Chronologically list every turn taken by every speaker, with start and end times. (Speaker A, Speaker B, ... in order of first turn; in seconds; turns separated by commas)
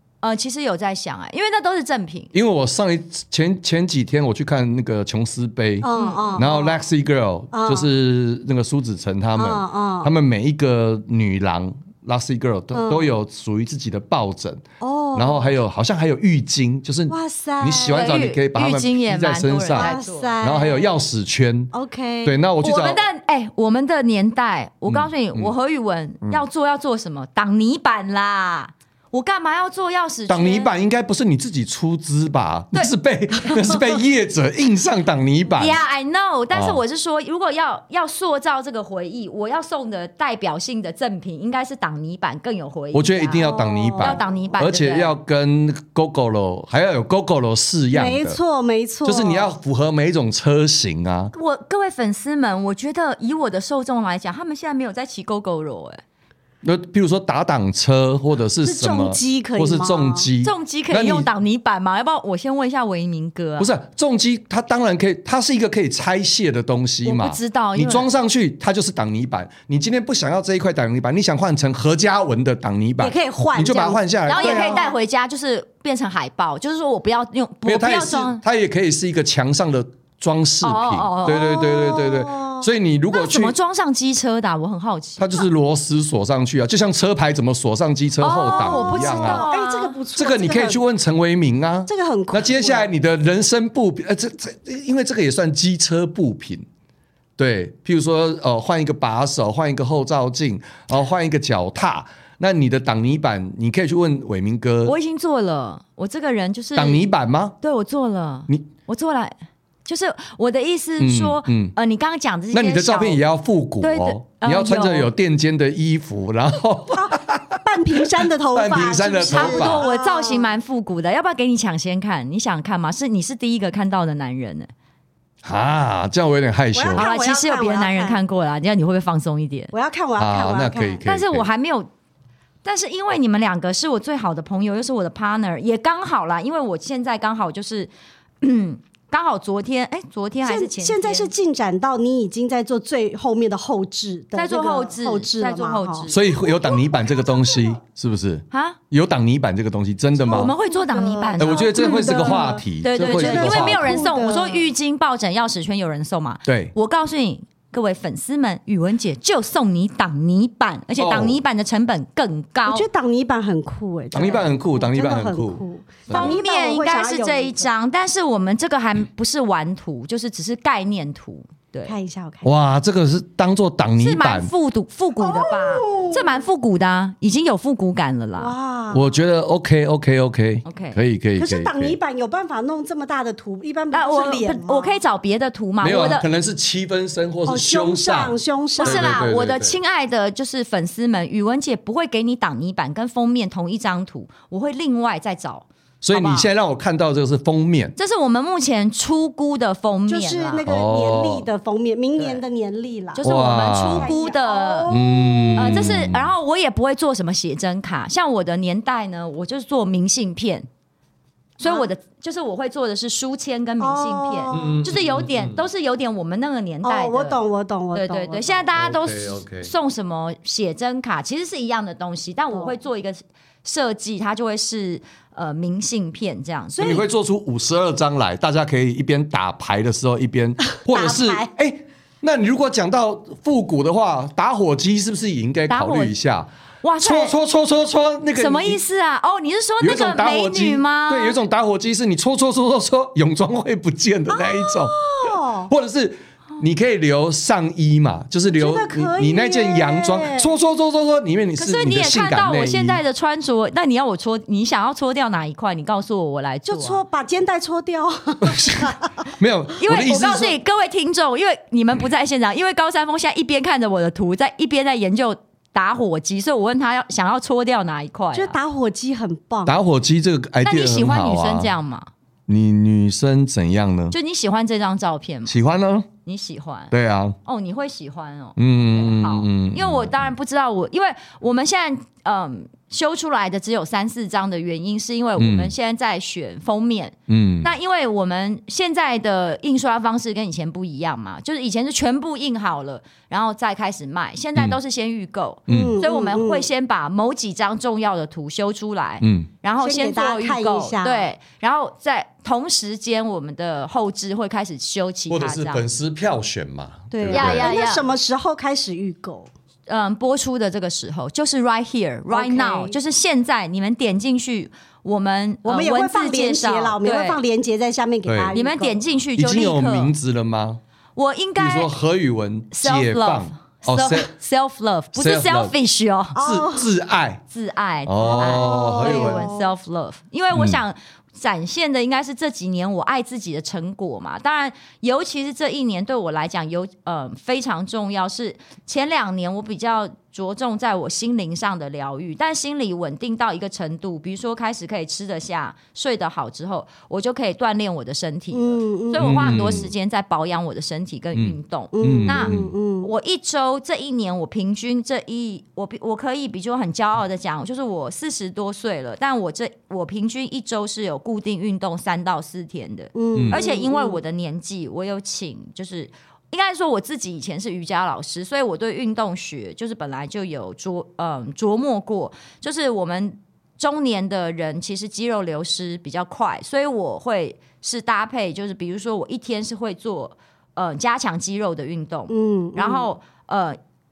Speaker A: 0.2-2.3, Speaker B: 2.3-14.6, Speaker C: 5.8-6.8, Speaker A: 5.9-6.4, Speaker C: 7.5-7.9, Speaker C: 9.4-10.1, Speaker C: 12.7-13.1, Speaker C: 14.8-15.5, Speaker B: 15.2-21.7, Speaker C: 17.1-18.2, Speaker A: 17.9-20.3, Speaker C: 19.8-21.0, Speaker C: 21.7-22.4, Speaker B: 22.2-23.0, Speaker A: 22.6-30.7, Speaker B: 24.9-25.5, Speaker B: 30.3-35.8, Speaker A: 32.7-33.9, Speaker A: 35.6-45.1, Speaker B: 36.5-36.8, Speaker B: 42.9-48.4, Speaker C: 43.4-44.2, Speaker C: 47.9-49.5, Speaker B: 49.0-51.3, Speaker A: 51.3-56.0, Speaker B: 56.6-61.3, Speaker C: 58.6-60.3, Speaker A: 60.4-63.7, Speaker B: 63.6-74.8, Speaker A: 67.0-68.1, Speaker C: 73.0-75.0, Speaker A: 74.3-78.4, Speaker B: 77.7-83.5, Speaker A: 80.6-81.6, Speaker C: 81.2-82.7, Speaker A: 83.1-85.5, Speaker B: 85.2-89.5, Speaker A: 88.2-90.0, Speaker C: 88.3-90.8, Speaker B: 90.2-96.7, Speaker C: 91.9-92.9, Speaker B: 97.4-104.9, Speaker A: 104.8-107.0, Speaker B: 106.8-107.6, Speaker A: 107.6-113.2, Speaker B: 111.0-111.7, Speaker B: 112.5-117.6, Speaker A: 113.8-115.1, Speaker C: 117.0-120.5, Speaker B: 118.5-119.9, Speaker A: 119.3-124.7, Speaker B: 125.4-127.0, Speaker C: 126.8-128.2, Speaker A: 126.9-129.7, Speaker C: 129.7-131.0, Speaker B: 130.2-131.5, Speaker A: 131.0-131.9, Speaker A: 132.6-137.9, Speaker A: 138.4-141.3, Speaker C: 140.4-146.8, Speaker A: 144.3-146.2, Speaker B: 146.1-150.5, Speaker A: 148.5-148.8, Speaker C: 150.3-154.7, Speaker A: 150.3-162.9, Speaker B: 151.4-154.0, Speaker B: 156.5-156.7, Speaker B: 161.0-161.4, Speaker C: 162.7-167.7, Speaker B: 164.1-166.4, Speaker A: 166.1-171.9, Speaker C: 171.9-172.5, Speaker B: 172.4-174.5, Speaker A: 174.0-178.6, Speaker C: 175.2-176.4, Speaker C: 178.4-179.1, Speaker B: 178.9-182.0, Speaker A: 180.6-181.0, Speaker C: 181.4-184.9, Speaker A: 183.9-186.2, Speaker B: 185.8-189.8, Speaker C: 187.5-189.2, Speaker A: 188.8-196.5, Speaker B: 196.0-197.9, Speaker A: 198.0-200.7, Speaker C: 200.1-205.9, Speaker B: 200.7-201.5, Speaker A: 202.2-202.4, Speaker A: 203.2-204.9, Speaker B: 203.2-204.1, Speaker B: 204.9-206.3, Speaker A: 205.6-210.7, Speaker A: 211.6-217.4, Speaker C: 211.6-211.9, Speaker C: 213.8-214.8, Speaker B: 214.5-215.6, Speaker C: 216.8-218.7, Speaker A: 217.9-227.0, Speaker B: 218.8-219.7, Speaker B: 226.8-238.8, Speaker C: 230.9-231.5, Speaker A: 235.7-236.1, Speaker A: 236.8-237.3, Speaker A: 238.4-241.4, Speaker B: 239.8-253.0, Speaker C: 244.3-245.7, Speaker C: 248.5-250.5, Speaker A: 251.6-257.0, Speaker C: 256.7-259.1, Speaker B: 258.5-260.6, Speaker A: 259.8-268.6, Speaker C: 268.3-269.8, Speaker B: 269.7-271.7, Speaker A: 270.6-272.1, Speaker B: 272.5-274.1, Speaker A: 274.1-275.5, Speaker B: 275.5-276.1, Speaker A: 276.2-276.9, Speaker B: 276.9-277.4, Speaker A: 277.4-305.9, Speaker B: 278.6-280.3, Speaker B: 285.4-285.7, Speaker B: 287.3-287.7, Speaker B: 295.7-296.0, Speaker C: 295.7-296.7, Speaker B: 299.2-299.5, Speaker C: 299.8-301.3, Speaker B: 305.3-307.8, Speaker C: 307.1-309.5, Speaker A: 307.3-308.1, Speaker A: 309.9-317.4, Speaker C: 312.3-313.0, Speaker C: 315.6-319.0, Speaker B: 318.3-318.6, Speaker A: 318.5-320.1, Speaker B: 319.4-320.8, Speaker A: 321.2-321.9, Speaker B: 321.6-324.3, Speaker A: 322.7-326.4, Speaker B: 325.1-325.8, Speaker C: 326.4-326.9, Speaker B: 326.4-327.4, Speaker A: 327.5-383.8, Speaker B: 328.1-329.4, Speaker C: 328.2-329.7, Speaker B: 330.5-330.8, Speaker C: 348.5-349.9, Speaker B: 349.2-349.9, Speaker B: 351.3-352.7, Speaker C: 351.9-353.1, Speaker C: 363.1-364.2, Speaker B: 363.3-363.6, Speaker C: 382.3-383.1